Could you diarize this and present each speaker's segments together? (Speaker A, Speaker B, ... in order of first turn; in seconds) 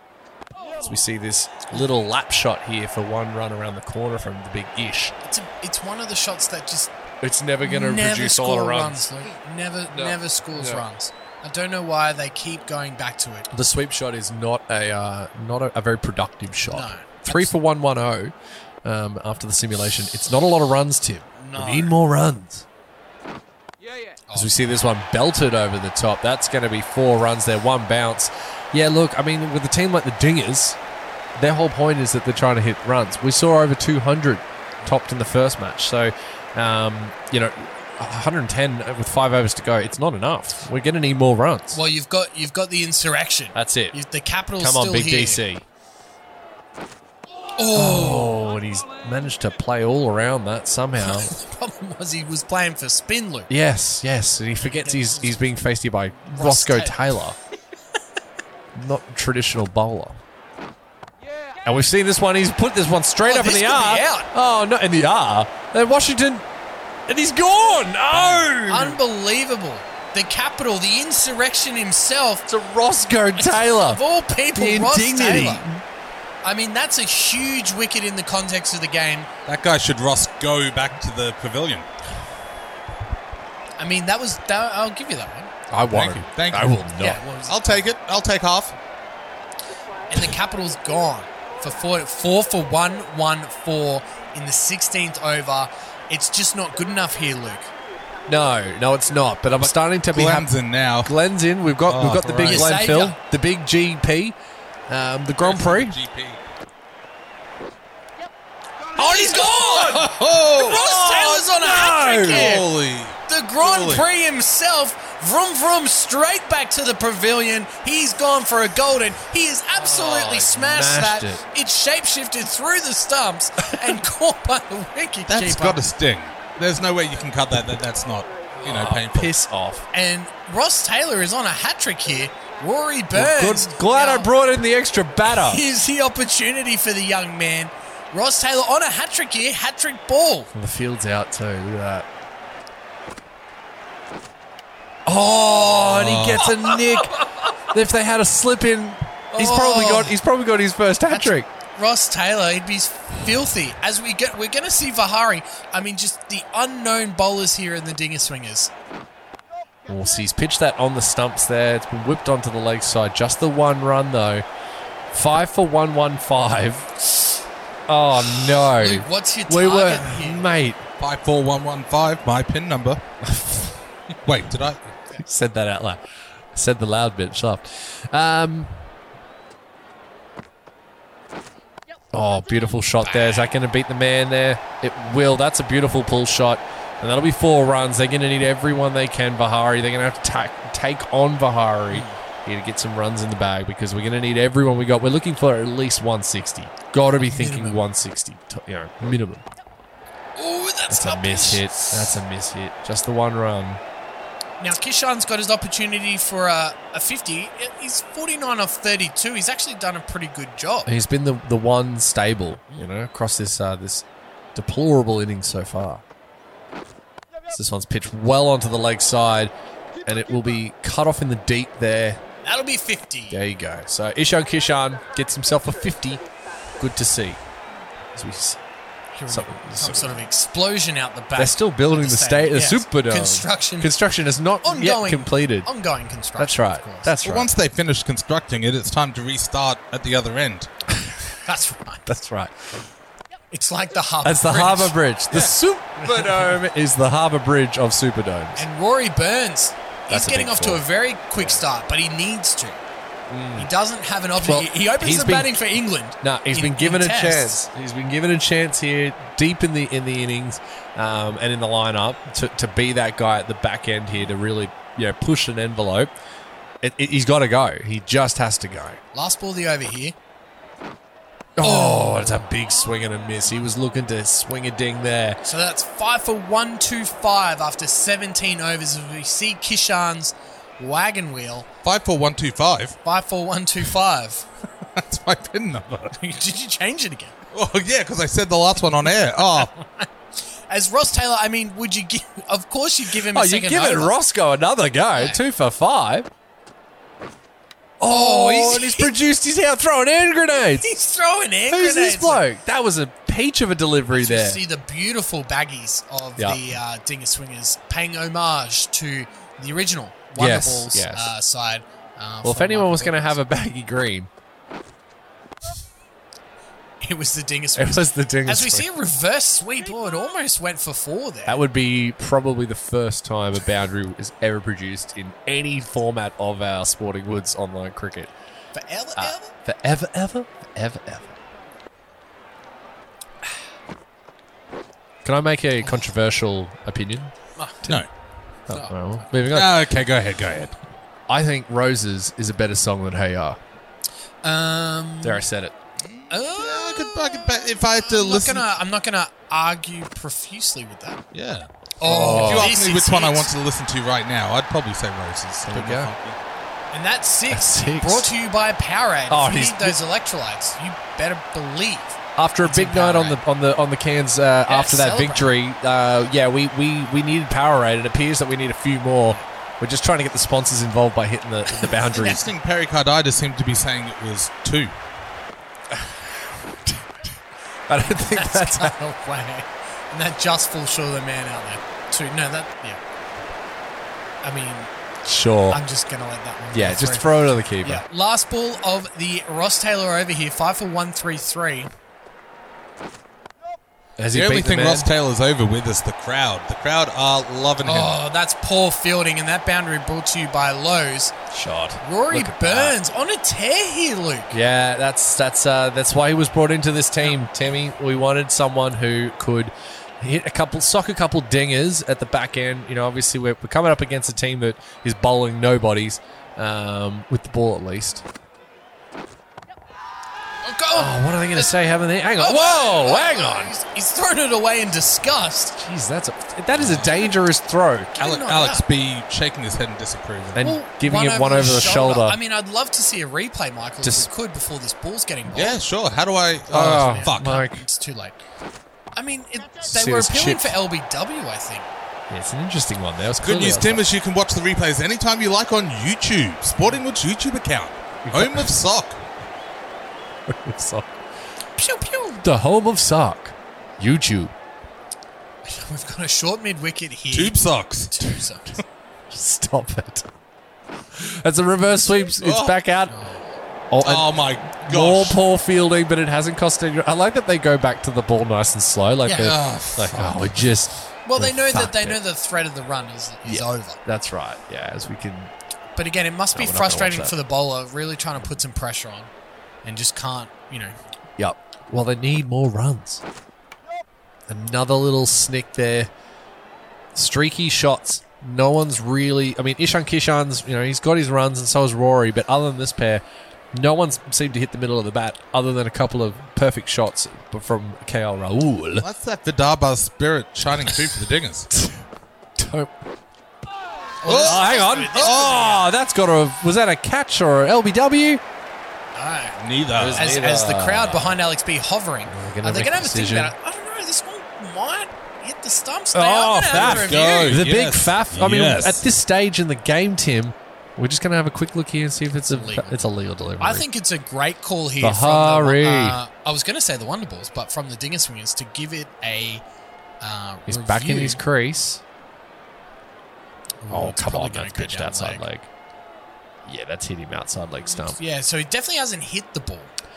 Speaker A: 0.8-5.2, 7.2-9.1, 9.9-10.8, 13.5-18.3, 18.8-22.6, 24.3-30.8, 31.4-41.8, 43.5-44.0, 44.6-45.6, 47.7-51.4, 53.5-57.4, 58.7-60.2, 61.6-66.5, 67.1-69.0, 72.5-74.0, 74.5-75.8, 85.7-87.2, 98.3-100.5, 101.0-104.4, 104.9-106.0, 110.7-112.6, 119.7-121.4, 128.6-129.9, 133.1-135.6, 140.5-142.1, 145.1-151.5, 159.9-164.4, 165.1-167.0, 167.9-170.8, 173.2-173.8, 175.2-176.0, 176.5-178.8, 182.1-199.5, 200.9-203.8, 210.9-216.0, 217.5-219.5, 220.1-222.2, 223.3-226.2, 226.8-227.4, 228.1-228.6, 229.3-230.3, 231.4-235.7, 236.4-237.5, 240.9-241.4, 242.1-242.7, 244.2-248.7, 250.1-250.8, 253.3-253.7, 254.4-255.6, 256.2-266.1, 266.8-269.0, 271.6-275.4, 293.2-296.3, 298.0-300.9, 301.7-304.6, 310.4-311.3, 312.4-314.3, 317.8-318.9, 321.5-328.3, 329.2-331.3, 335.2-337.3, 338.7-339.9, 341.3-343.6, 345.2-345.8, 352.0-352.8, 355.7-356.1, 357.5-358.3, 359.3-360.0, 362.4-372.5, 375.9-377.0, 377.9-378.9, 385.2-385.8, 386.7-388.0, 394.2-395.1, 401.5-403.0, 404.5-418.3, 420.9-423.7, 425.8-428.1, 430.5-432.4, 434.0-434.3, 436.7-437.8, 439.8-440.8, 442.3-444.1, 448.2-448.8, 450.5-451.1, 452.4-454.5, 459.3-460.3, 461.1-463.2, 463.9-472.2, 473.4-475.5, 476.6-477.4, 481.4-483.2, 484.5-486.1, 487.1-499.1, 501.7-502.0, 502.6-503.0, 504.3-508.4, 509.9-511.4, 512.3-513.5, 516.1-523.9, 525.0-526.2, 530.7-532.0, 533.9-535.7, 536.6-538.2
Speaker B: 5.2-6.9, 7.6-13.5, 16.7-17.5, 21.4-22.0, 24.3-24.5, 41.7-45.4, 47.6-48.4, 51.0-53.5, 54.6-55.4, 56.3-57.1, 63.2-64.3, 68.7-72.5, 73.6-75.6, 76.4-79.3, 83.8-85.5, 87.0-87.8, 90.1-97.7, 102.4-103.2, 109.0-112.7, 113.3-125.8, 129.9-134.3, 135.2-140.5, 149.3-150.2, 151.1-158.7, 168.2-170.5, 183.0-183.6, 191.9-192.2, 197.2-197.8, 200.4-202.2, 204.6-210.9, 222.4-223.4, 229.1-233.9, 234.6-237.1, 241.4-242.1, 243.5-245.0, 248.6-252.8, 253.6-257.6, 269.1-270.2, 271.6-272.3, 275.4-281.7, 283.0-284.5, 286.1-287.4, 289.6-290.1, 290.7-294.1, 295.1-295.4, 298.1-299.2, 300.7-302.4, 304.1-313.4, 317.0-321.6, 328.7-329.5, 337.6-337.9, 338.7-339.0, 344.4-345.5, 346.3-351.2, 352.0-353.5, 356.9-363.4, 364.7-365.5, 372.0-372.5, 378.2-383.0, 384.4-384.9, 385.7-391.9, 397.8-401.4, 402.0-404.5, 420.6-421.9, 422.4-425.8, 428.1-428.9, 430.6-435.8, 436.7-438.4, 439.2-441.9, 451.8-452.4, 455.6-457.6, 458.1-458.8, 463.1-463.4, 469.2-469.6, 471.3-474.0, 476.0-479.3, 479.8-480.9, 504.2-505.9, 509.1-509.6, 510.1-517.6, 522.5-523.0, 523.6-529.6, 530.2-531.4, 533.8-535.4, 538.1-539.9
Speaker C: 79.5-81.9, 85.9-86.9, 87.4-88.8, 99.7-101.1, 101.9-102.8, 105.4-106.4, 109.0-114.1, 125.3-129.3, 145.6-146.6, 171.0-173.0, 174.2-174.9, 237.2-240.7, 281.8-283.0, 284.9-286.2, 287.5-289.7, 339.5-340.8, 346.0-348.6, 351.3-356.4, 372.1-374.9, 394.3-398.1, 426.7-427.2, 428.2-430.7, 435.5-437.6, 443.4-449.2, 457.3-458.1, 462.4-462.8, 464.0-465.4, 469.4-470.5, 499.0-501.7, 504.3-505.7, 509.6-510.3, 516.7-519.0